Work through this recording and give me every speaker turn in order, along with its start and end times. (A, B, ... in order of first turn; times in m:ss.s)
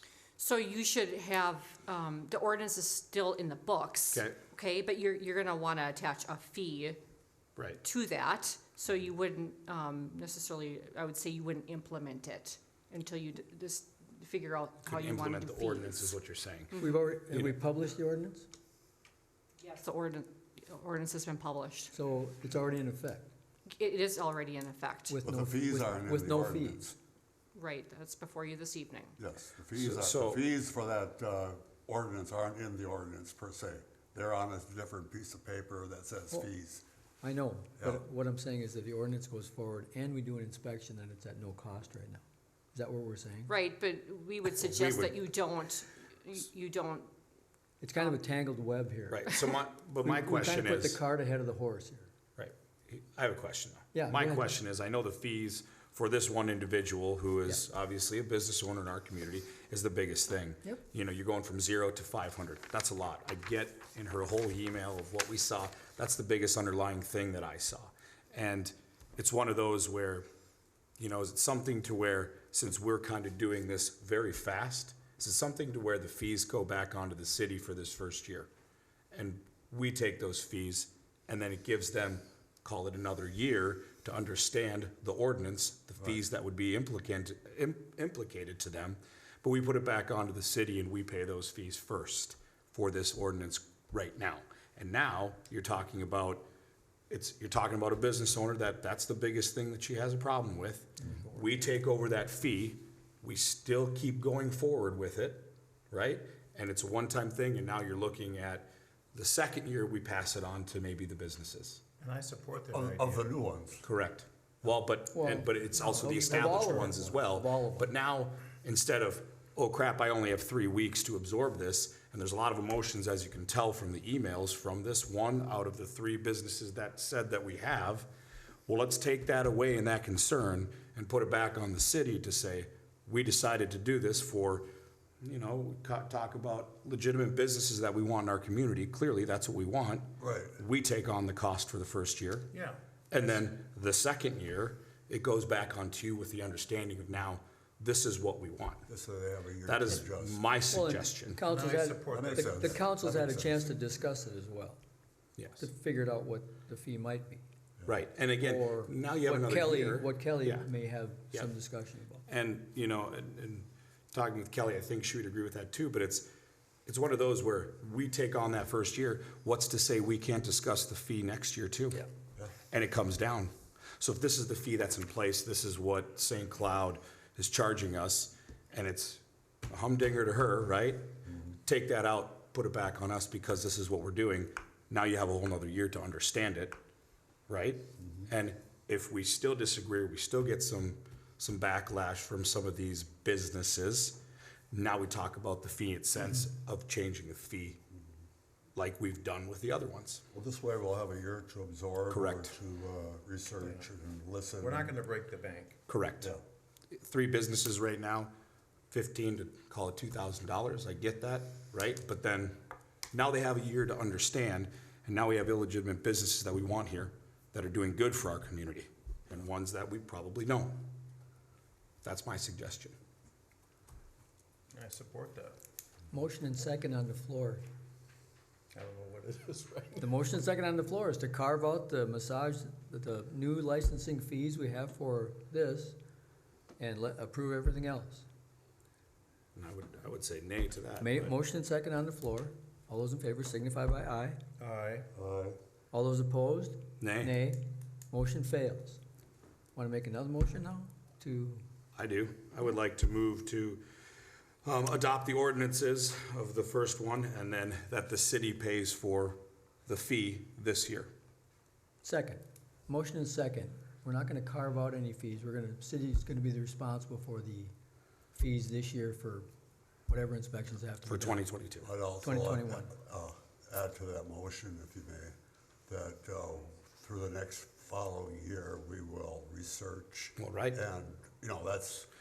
0:00.4-0:07.0 A
0:04.1-0:04.4 B
0:07.6-0:07.8 B
0:07.8-0:16.2 A
0:14.9-0:17.5 B
0:16.8-0:18.5 C
0:19.6-0:21.9 A
0:21.9-0:23.3 C
0:23.7-0:25.2 A
0:25.1-0:26.9 C
0:25.2-0:26.9 D
0:27.5-0:29.2 A
0:29.2-0:36.8 D
0:29.7-0:30.4 B
0:37.2-0:42.2 C
0:42.7-0:43.5 C
0:43.5-0:47.1 A
0:44.6-0:45.2 B
0:47.8-0:49.3 C
0:49.1-0:51.0 B
0:50.0-0:52.1 C
0:52.4-1:10.3 B
0:53.9-0:54.5 C
1:11.0-1:18.5 B
1:19.1-1:36.4 B
1:37.1-1:51.8 B
1:41.0-1:41.7 C
1:52.0-1:53.2 E
1:52.7-1:53.8 D
1:53.8-2:08.1 B
1:55.1-1:57.9 C
2:08.7-2:14.7 B
2:15.2-2:22.5 B
2:20.2-2:20.6 D
2:22.5-2:22.8 E
2:23.1-2:28.9 B
2:28.9-2:30.4 D
2:29.6-2:31.4 B
2:30.7-2:34.8 C
2:31.4-2:32.8 E
2:32.1-2:33.7 D
2:35.4-2:35.7 B
2:35.6-2:37.4 C
2:37.8-2:40.7 B
2:38.4-2:42.2 C
2:42.2-2:46.3 B
2:46.8-2:52.0 B
2:52.7-3:01.1 B
3:01.6-3:06.8 B
3:07.5-3:17.8 B
3:18.8-3:20.2 B
3:20.3-3:24.9 D
3:22.1-3:22.6 B
3:24.6-3:25.8 E
3:25.9-3:26.3 B
3:26.9-3:28.3 B
3:28.9-3:32.6 B
3:33.1-3:40.8 B
3:42.0-3:43.0 B
3:44.7-3:45.6 E
3:46.1-3:47.6 C
3:48.7-3:50.1 E
3:50.0-3:56.0 C
3:56.8-3:58.2 C
3:59.5-4:01.3 B
4:01.0-4:04.4 C
4:04.6-4:05.1 E
4:05.1-4:05.6 D
4:05.9-4:09.0 C
4:07.0-4:07.4 B
4:09.8-4:11.6 C
4:11.9-4:13.8 B
4:14.6-4:21.1 B
4:22.0-4:27.7 C
4:28.3-4:29.5 C
4:30.1-4:31.4 C
4:31.1-4:31.9 B
4:31.8-4:35.3 D
4:32.2-4:32.9 C
4:35.9-4:42.1 D
4:40.4-4:40.8 B